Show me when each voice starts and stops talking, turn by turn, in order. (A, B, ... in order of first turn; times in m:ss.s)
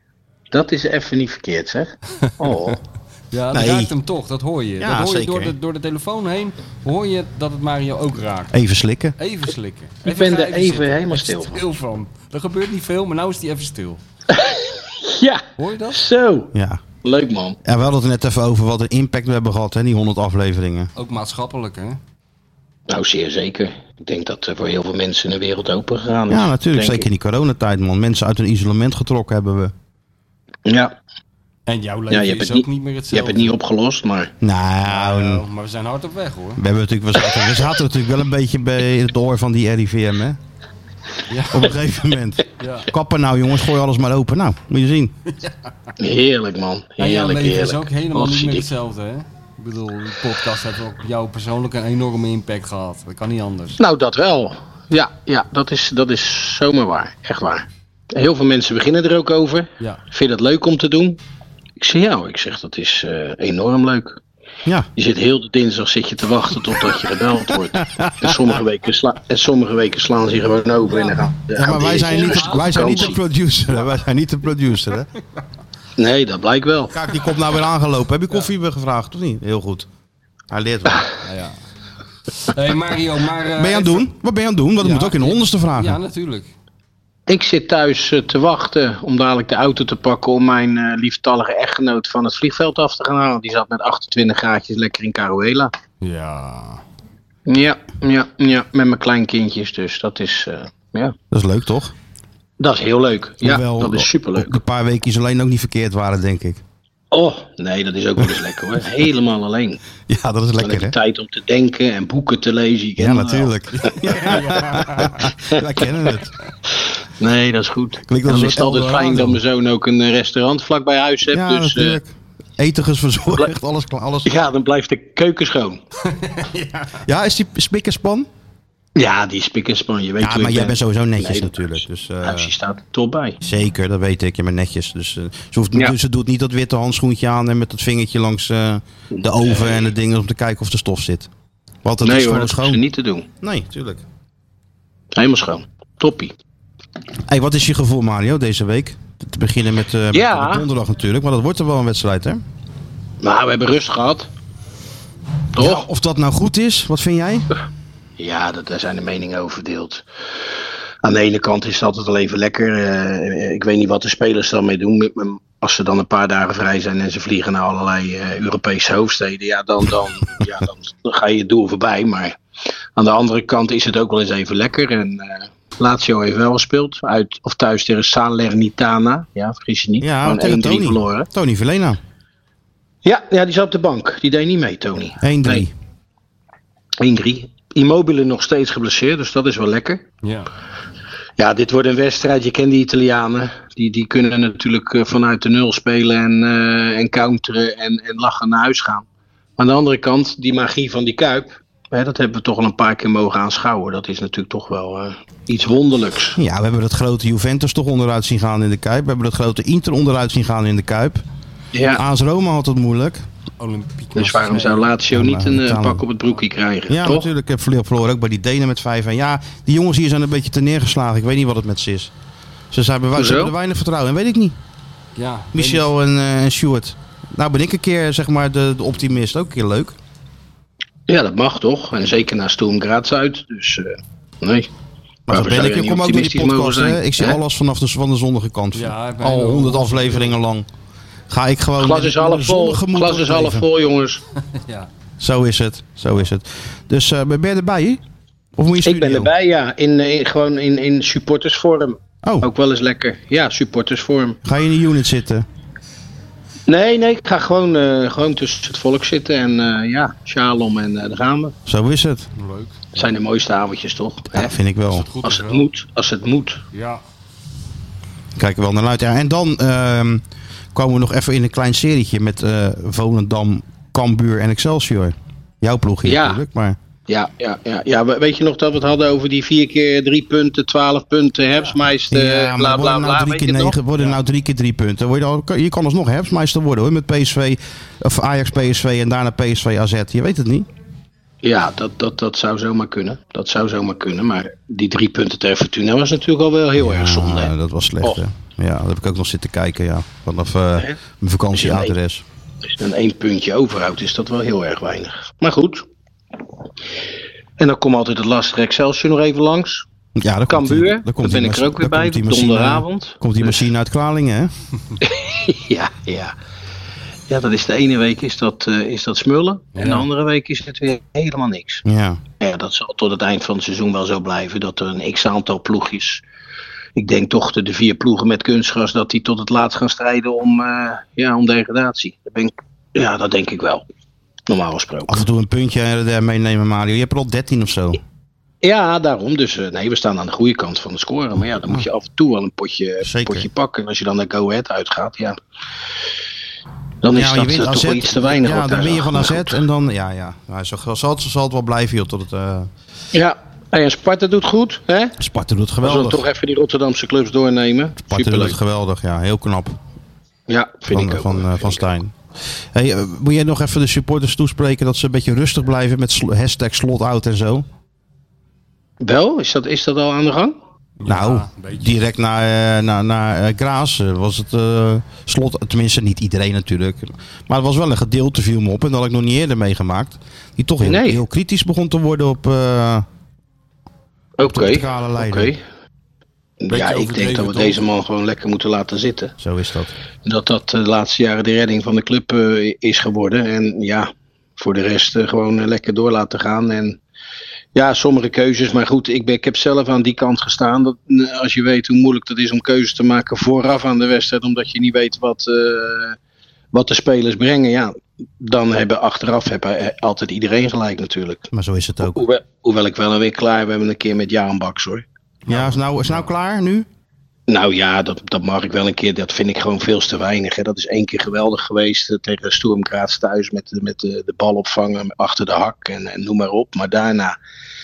0:00.5-0:02.8 A
0:02.2-0:02.7 B
0:03.3-0:08.5 B
0:03.5-0:03.9 C
0:04.8-0:05.5 C
0:08.5-0:09.1 C
0:09.2-0:14.0 B
0:10.0-0:11.6 A
0:14.3-0:17.6 A
0:15.6-0:16.0 B
0:16.5-0:16.8 C
0:17.6-0:20.9 C
0:21.0-0:22.0 B
0:22.9-0:27.1 A
0:26.3-0:29.7 C
0:30.6-0:30.9 A
0:31.7-0:33.5 B
0:32.1-0:34.3 A
0:34.4-0:35.4 C
0:34.8-0:36.6 B
0:36.6-0:40.4 C
0:41.3-0:41.8 B
0:41.5-0:45.2 C
0:42.6-0:42.9 B
0:46.0-0:48.7 A
0:47.0-0:53.8 B
0:53.8-1:01.2 A
1:01.8-1:04.2 A
1:05.0-1:13.2 A
1:07.8-1:08.5 C
1:10.8-1:11.2 B
1:11.5-1:15.1 C
1:12.0-1:13.2 B
1:16.0-1:16.9 A
1:16.9-1:19.9 C
1:20.5-1:21.0 C
1:21.2-1:21.6 B
1:22.4-1:24.0 B
1:23.6-1:26.0 C
1:24.8-1:26.5 B
1:27.3-1:35.7 A
1:36.0-1:36.8 B
1:37.4-1:41.2 A
1:41.3-1:41.9 C
1:42.6-1:44.6 A
1:43.4-1:46.6 C
1:47.1-1:49.8 A
1:50.1-1:51.0 C
1:50.6-1:53.5 A
1:53.0-1:56.3 C
1:54.1-1:55.2 B
1:57.2-2:02.0 A
1:58.1-1:59.4 C
2:01.3-2:04.4 C
2:04.2-2:05.8 A
2:06.1-2:07.0 B
2:07.0-2:08.3 C
2:09.0-2:13.4 A
2:10.2-2:12.5 C
2:13.4-2:21.3 C
2:19.1-2:19.9 A
2:21.8-2:22.8 C
2:22.0-2:23.3 A
2:23.4-2:24.0 C
2:25.1-2:26.3 A
2:27.3-2:32.4 C
2:30.1-2:30.6 A
2:33.2-2:34.3 A
2:35.5-2:35.8 A
2:35.6-2:37.5 C
2:38.2-2:40.0 A
2:41.0-2:52.4 A
2:53.0-3:01.3 A
3:00.0-3:02.0 C
3:03.0-3:05.7 A
3:05.2-3:05.7 C
3:07.0-3:10.0 A
3:10.2-3:10.5 B
3:11.4-3:19.0 A
3:19.6-3:26.4 A
3:26.4-3:31.2 C
3:31.7-3:32.0 A
3:31.9-3:33.2 C
3:33.6-3:34.9 B
3:34.1-3:37.3 A
3:35.1-3:36.0 C
3:36.9-3:42.1 C
3:42.7-3:44.6 C
3:43.1-3:43.5 A
3:45.2-3:45.8 B
3:45.5-3:50.0 C
3:51.1-3:54.7 A
3:55.3-4:00.7 C
3:55.3-3:57.4 A
3:58.7-4:00.3 B
4:01.3-4:03.6 C
4:01.8-4:04.2 A
4:04.5-4:04.9 B
4:05.2-4:08.0 C
4:08.6-4:09.3 C
4:08.8-4:14.4 A
4:12.2-4:12.5 C
4:14.4-4:15.4 C
4:16.7-4:21.6 A
4:21.6-4:22.3 C
4:22.4-4:23.0 B
4:22.9-4:24.6 A
4:24.3-4:25.1 C
4:24.9-4:25.7 B
4:25.2-4:26.6 A
4:26.7-4:27.0 B
4:28.4-4:30.2 C
4:30.7-4:36.8 C
4:36.0-4:36.4 A
4:37.1-4:43.8 A
4:42.1-4:50.7 C
4:51.4-4:58.2 A
4:56.8-5:02.2 C
5:01.5-5:01.9 A
5:02.8-5:05.9 A
5:07.6-5:09.8 A
5:10.2-5:14.5 C
5:10.5-5:13.6 A
5:15.0-5:16.3 A
5:17.3-5:21.8 A
5:19.7-5:20.1 B
5:21.8-5:22.2 C
5:22.4-5:26.2 A
5:27.0-5:33.8 A
5:34.5-5:35.2 A
5:35.1-5:38.0 C
5:38.6-5:45.4 A
5:43.0-5:43.5 C
5:47.0-5:49.6 A
5:47.1-5:52.7 C
5:53.1-5:55.2 A
5:55.2-5:56.2 C
5:55.8-5:58.6 A
5:58.1-5:59.8 C
6:00.5-6:01.8 A
6:00.9-6:02.1 C
6:02.7-6:07.6 C
6:09.0-6:10.6 A
6:11.0-6:12.0 B
6:11.0-6:23.0 C
6:20.8-6:21.2 A
6:24.4-6:25.6 A
6:24.4-6:25.5 C
6:26.6-6:29.3 A
6:26.7-6:27.8 B
6:29.4-6:29.9 C
6:30.2-6:37.0 A
6:37.7-6:46.2 A
6:46.7-6:51.5 A
6:51.5-6:52.2 C
6:52.0-6:55.0 A
6:55.5-6:56.9 C
6:57.5-7:07.4 A